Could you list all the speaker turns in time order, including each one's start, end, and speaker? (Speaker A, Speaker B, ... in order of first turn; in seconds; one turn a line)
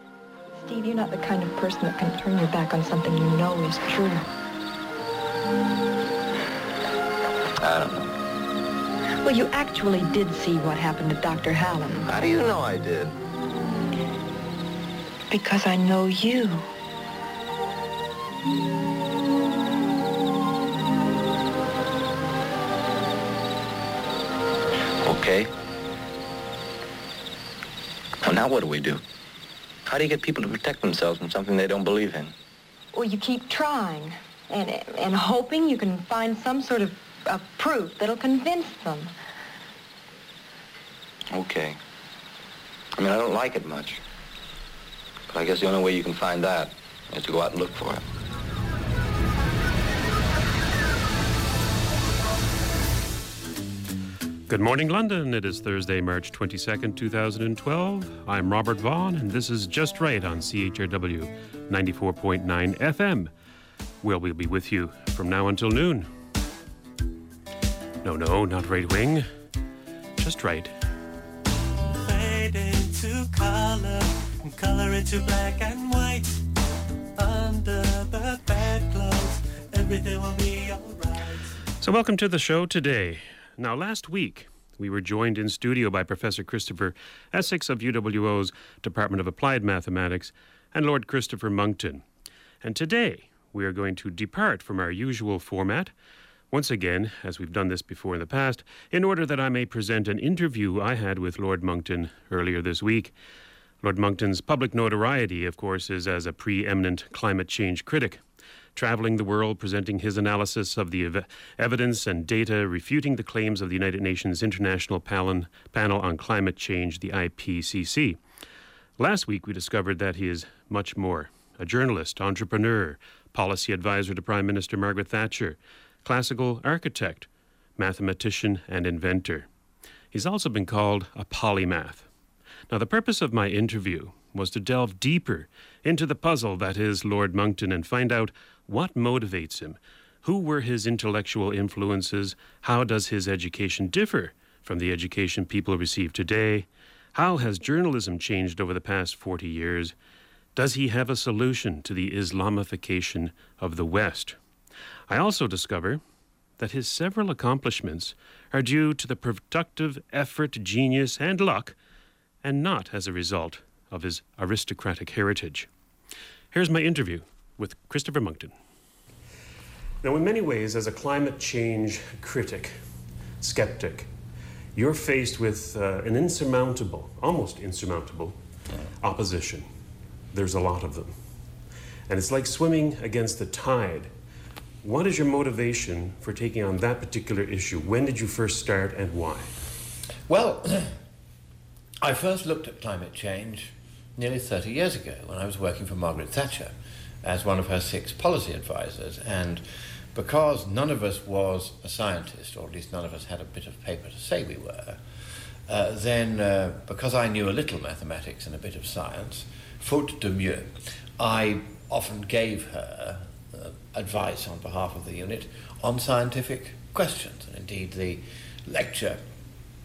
Speaker A: 0.6-4.2
Speaker B: 7.6-8.1
Speaker A: 9.2-12.1
Speaker B: 12.1-13.2
Speaker A: 15.3-16.6
Speaker B: 25.0-25.5
Speaker B: 28.2-29.0
Speaker B: 29.9-32.3
Speaker A: 32.9-39.1
Speaker B: 41.3-41.8
Speaker B: 43.0-44.0
Speaker B: 45.3-48.0
Speaker C: 54.5-63.3
Speaker C: 64.0-66.1
Speaker C: 68.0-69.2
Speaker C: 70.2-70.7
Speaker D: 72.0-76.4
Speaker D: 77.2-81.5
Speaker C: 81.8-92.0
Speaker C: 92.6-95.9
Speaker C: 96.5-103.1
Speaker C: 103.8-108.2
Speaker C: 108.7-118.2
Speaker C: 119.0-129.5
Speaker C: 130.1-132.1
Speaker C: 132.7-149.9
Speaker C: 150.5-154.4
Speaker C: 155.1-156.0
Speaker C: 156.6-161.8
Speaker C: 162.4-165.7
Speaker C: 166.5-168.5
Speaker C: 170.0-172.8
Speaker C: 173.4-174.1
Speaker C: 174.7-178.3
Speaker C: 179.0-179.7
Speaker C: 180.3-181.1
Speaker C: 182.1-184.1
Speaker C: 184.8-189.5
Speaker E: 190.3-190.9
Speaker E: 192.0-199.6
Speaker E: 200.1-205.0
Speaker E: 205.7-219.2